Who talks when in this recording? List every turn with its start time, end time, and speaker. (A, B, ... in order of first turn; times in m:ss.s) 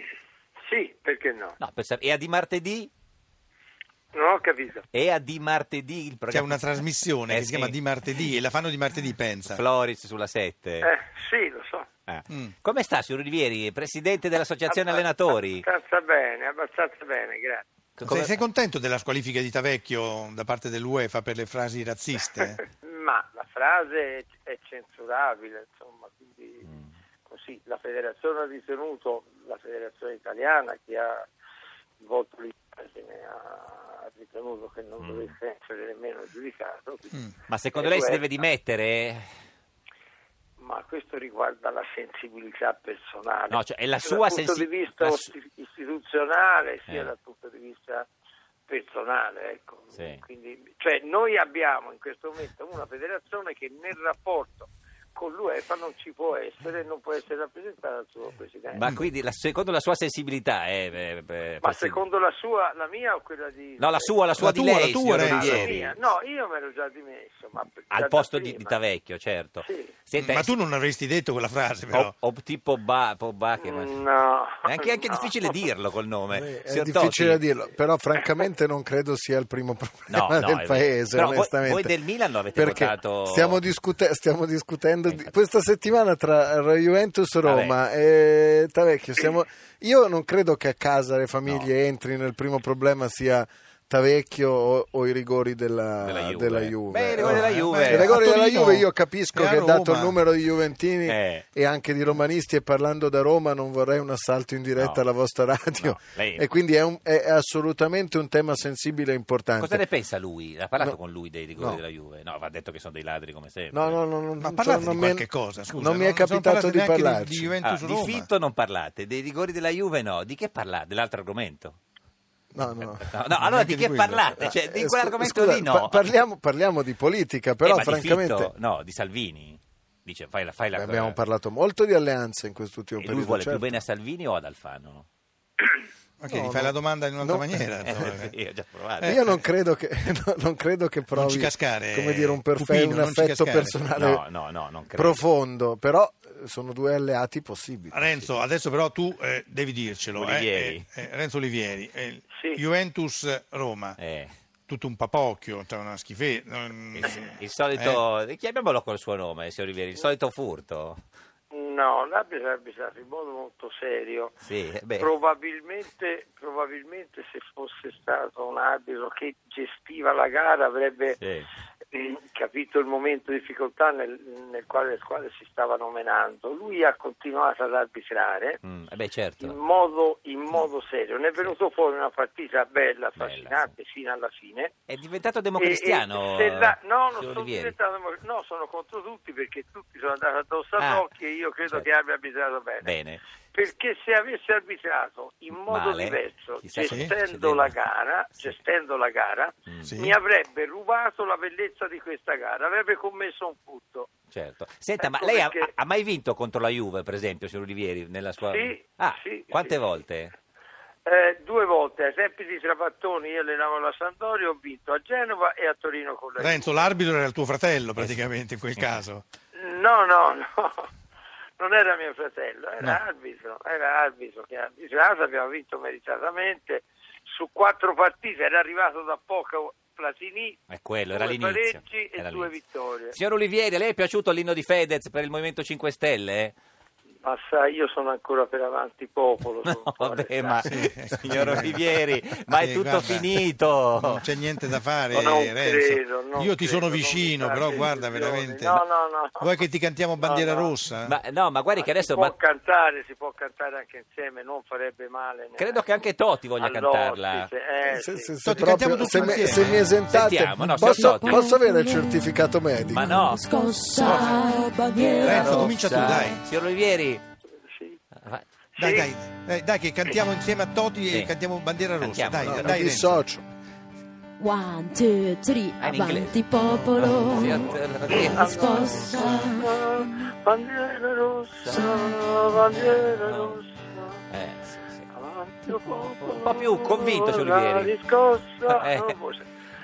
0:00.7-0:01.6 A
0:01.6-0:02.9 B
0:04.1-0:04.8 A
0:04.9-0:06.6 B
0:06.3-0:09.6 C
0:07.3-0:07.8 B
0:09.4-0:10.9 B
0:10.8-0:11.9 A
0:12.1-0:15.6 B
0:14.7-0:17.6 A
0:18.0-0:18.4 B
0:18.0-0:22.6 C
0:22.8-0:26.7 A
0:27.2-0:31.2 A
0:32.0-0:37.2 A
0:35.0-0:35.3 B
0:37.5-0:39.2 B
0:37.7-0:38.4 A
0:40.6-0:48.1 A
0:43.5-0:45.3 B
0:46.9-0:47.1 B
0:48.7-0:58.8 A
0:49.9-0:50.2 B
0:58.7-1:02.0 B
1:01.6-1:04.2 A
1:03.8-1:05.9 B
1:04.4-1:05.8 C
1:05.2-1:08.8 A
1:07.9-1:10.5 B
1:09.6-1:09.9 A
1:10.2-1:12.1 C
1:11.9-1:14.0 B
1:13.6-1:15.4 A
1:14.6-1:17.4 B
1:16.3-1:22.0 D
1:20.1-1:23.6 B
1:22.5-1:49.8 D
1:25.1-1:25.3 B
1:27.4-1:27.7 B
1:36.0-1:38.2 B
1:37.2-1:40.2 C
1:41.0-1:41.4 B
1:44.8-1:45.0 B
1:45.7-1:46.4 B
1:49.6-1:54.0 B
1:51.6-1:51.8 D
1:53.7-1:57.5 D
1:54.4-1:58.3 C
1:57.6-2:01.8 B
2:02.5-2:03.1 D
2:02.8-2:06.2 B
2:03.3-2:04.4 C
2:04.4-2:08.5 D
2:07.6-2:11.2 B
2:10.7-2:13.8 D
2:13.0-2:15.0 B
2:16.2-2:18.3 C
2:16.3-2:18.2 D
2:17.8-2:19.2 B
2:19.0-2:19.2 C
2:19.0-2:24.2 D
2:21.1-2:23.8 C
2:23.9-2:25.2 B
2:24.9-2:28.2 D
2:27.9-2:34.0 C
2:30.1-2:30.8 B
2:32.3-2:32.6 A
2:34.0-2:34.3 B
2:34.7-2:38.0 C
2:36.9-2:41.0 B
2:41.5-2:44.3 A
2:44.4-2:45.1 B
2:45.0-2:51.2 A
2:51.2-2:51.5 B
2:51.9-2:58.6 A
2:58.6-2:59.5 B
2:59.4-3:04.7 A
3:03.2-3:03.7 B
3:04.9-3:07.7 B
3:05.6-3:12.9 A
3:10.8-3:11.0 B
3:12.8-3:13.2 B
3:13.5-3:24.1 A
3:15.6-3:17.7 B
3:16.8-3:17.1 C
3:19.8-3:20.2 C
3:24.3-3:30.3 B
3:25.0-3:25.7 A
3:28.4-3:29.9 A
3:31.0-3:36.9 A
3:36.4-3:39.2 C
3:39.5-3:40.9 A
3:41.6-3:50.6 A
3:50.7-3:52.5 B
3:51.1-3:53.2 A
3:53.1-3:56.5 B
3:57.2-4:00.6 A
3:59.6-4:04.2 B
4:00.6-4:03.4 C
4:04.0-4:08.8 C
4:05.1-4:09.5 A
4:09.4-4:11.2 C
4:10.2-4:10.7 A
4:11.0-4:12.3 B
4:11.8-4:15.8 A
4:15.6-4:17.5 B
4:16.6-4:18.3 A
4:17.8-4:23.2 D
4:18.4-4:19.9 C
4:19.6-4:21.5 B
4:20.8-4:22.1 E
4:22.9-4:27.2 B
4:22.9-4:26.3 E
4:25.2-4:26.4 C
4:27.7-4:28.0 A
4:28.8-4:29.1 A
4:28.8-4:33.2 C
4:32.0-4:32.9 B
4:32.4-4:33.4 D
4:34.4-4:39.7 E
4:35.8-4:39.4 B
4:38.1-4:44.2 A
4:41.6-4:42.0 B
4:42.7-4:43.6 B
4:44.3-4:45.1 B
4:45.1-4:49.5 A
4:46.0-4:47.9 B
4:48.7-4:49.1 B